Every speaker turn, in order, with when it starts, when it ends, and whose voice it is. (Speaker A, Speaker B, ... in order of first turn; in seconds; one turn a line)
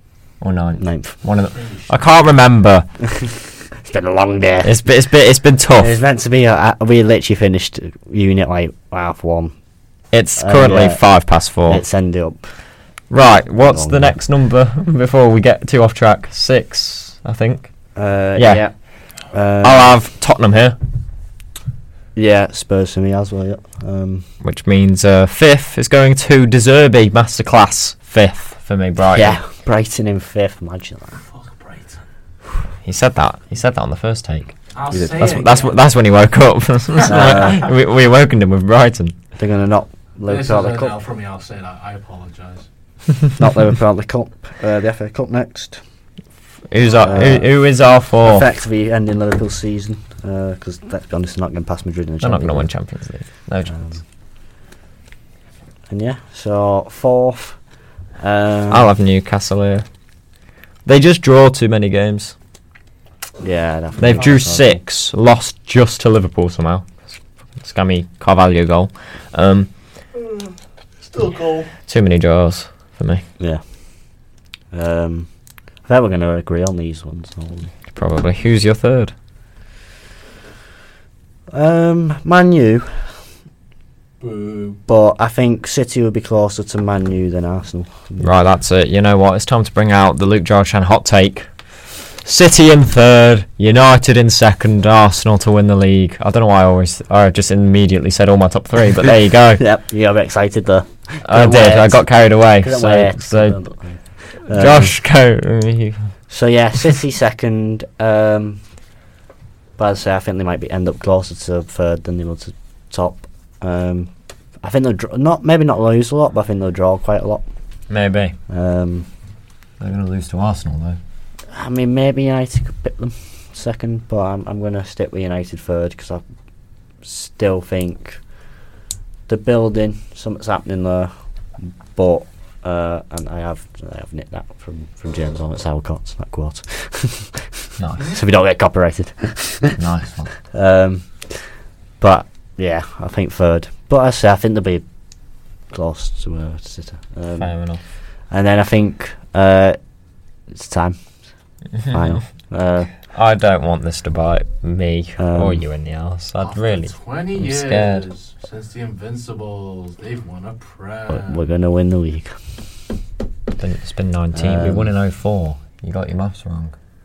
Speaker A: 0.4-2.9
Speaker B: 0.8-1.2
Speaker C: 1.4-2.0
Speaker B: 3.1-4.8
Speaker A: 4.6-6.0
Speaker B: 5.8-9.5
Speaker A: 10.1-11.8
Speaker B: 10.4-11.0
Speaker B: 11.7-12.5
Speaker A: 13.1-17.7
Speaker B: 13.5-14.2
Speaker B: 17.9-19.9
Speaker A: 18.3-18.7
Speaker A: 19.6-20.8
Speaker B: 22.1-24.2
Speaker A: 24.4-29.4
Speaker B: 29.1-31.2
Speaker C: 31.2-32.0
Speaker A: 32.8-34.6
Speaker C: 34.7-35.9
Speaker B: 34.9-35.4
Speaker A: 35.1-39.1
Speaker C: 37.0-37.6
Speaker B: 37.0-37.7
Speaker B: 39.4-41.0
Speaker C: 40.2-42.7
Speaker B: 43.4-45.8
Speaker A: 46.7-48.5
Speaker B: 47.0-47.5
Speaker B: 48.2-52.7
Speaker A: 52.2-54.0
Speaker B: 55.9-57.6
Speaker B: 58.2-58.9
Speaker A: 58.7-59.9
Speaker A: 60.8-62.3
Speaker B: 63.4-64.8
Speaker A: 64.0-69.7
Speaker C: 71.0-71.7
Speaker A: 71.8-73.2
Speaker B: 73.4-77.7
Speaker A: 77.9-79.1
Speaker B: 81.5-83.2
Speaker C: 84.2-84.8
Speaker B: 84.8-88.3
Speaker A: 88.2-91.5
Speaker A: 92.2-99.6
Speaker B: 99.6-105.0
Speaker A: 101.2-103.6
Speaker A: 104.2-106.1
Speaker B: 106.3-108.6
Speaker B: 109.8-117.5
Speaker A: 117.9-118.3
Speaker B: 118.5-119.1
Speaker A: 119.8-121.0
Speaker B: 121.5-126.2
Speaker B: 127.0-128.2
Speaker B: 129.3-139.8
Speaker A: 137.8-138.1
Speaker A: 139.8-140.3
Speaker B: 140.4-144.8
Speaker B: 145.7-147.5
Speaker A: 147.3-147.8
Speaker B: 148.3-149.8
Speaker B: 150.5-151.0
Speaker A: 151.8-152.2
Speaker B: 151.9-152.9
Speaker A: 153.1-158.1
Speaker B: 155.2-155.6
Speaker C: 156.4-161.4
Speaker B: 161.1-162.3
Speaker A: 163.6-166.7
Speaker B: 164.3-164.9